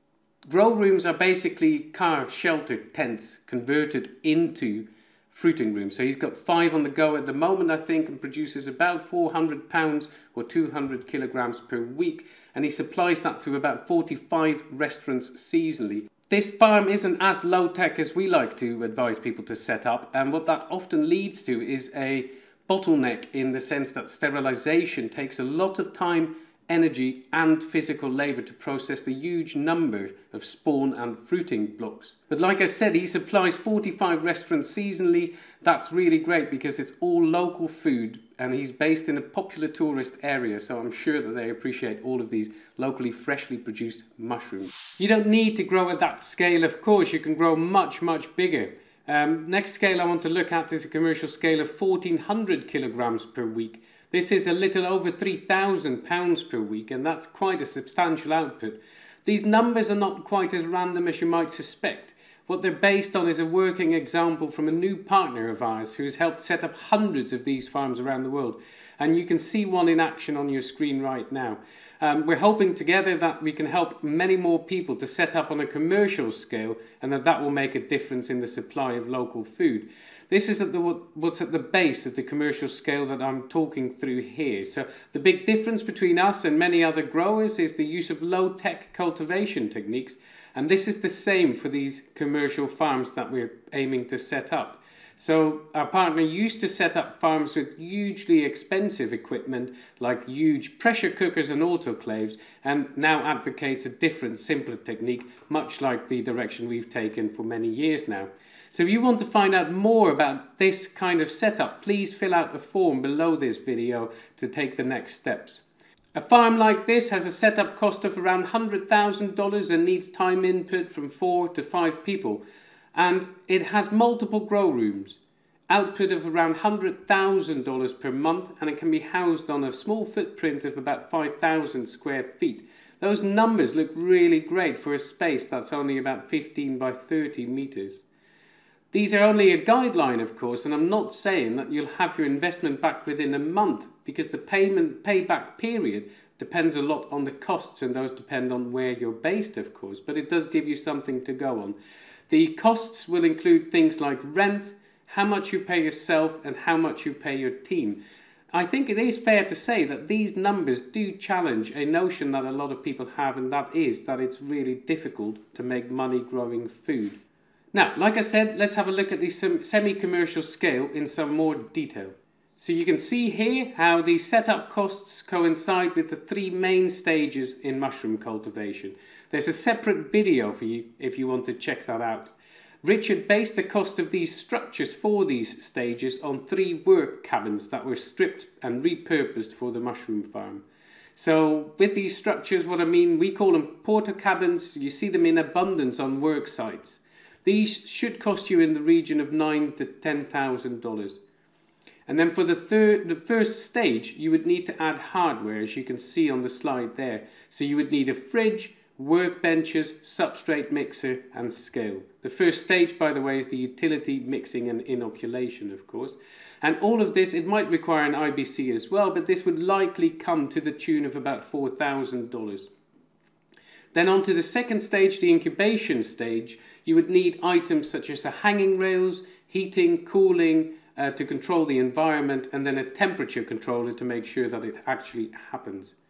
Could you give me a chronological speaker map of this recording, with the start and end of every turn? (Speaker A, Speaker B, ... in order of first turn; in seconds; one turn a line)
Speaker A: 0.5-115.6
Speaker A: 116.2-122.4
Speaker A: 123.0-125.2
Speaker A: 125.7-138.0
Speaker A: 138.9-151.8
Speaker A: 152.3-158.0
Speaker A: 158.5-167.2
Speaker A: 167.7-182.3
Speaker A: 182.8-190.6
Speaker A: 191.2-201.2
Speaker A: 202.1-222.7
Speaker A: 223.9-235.9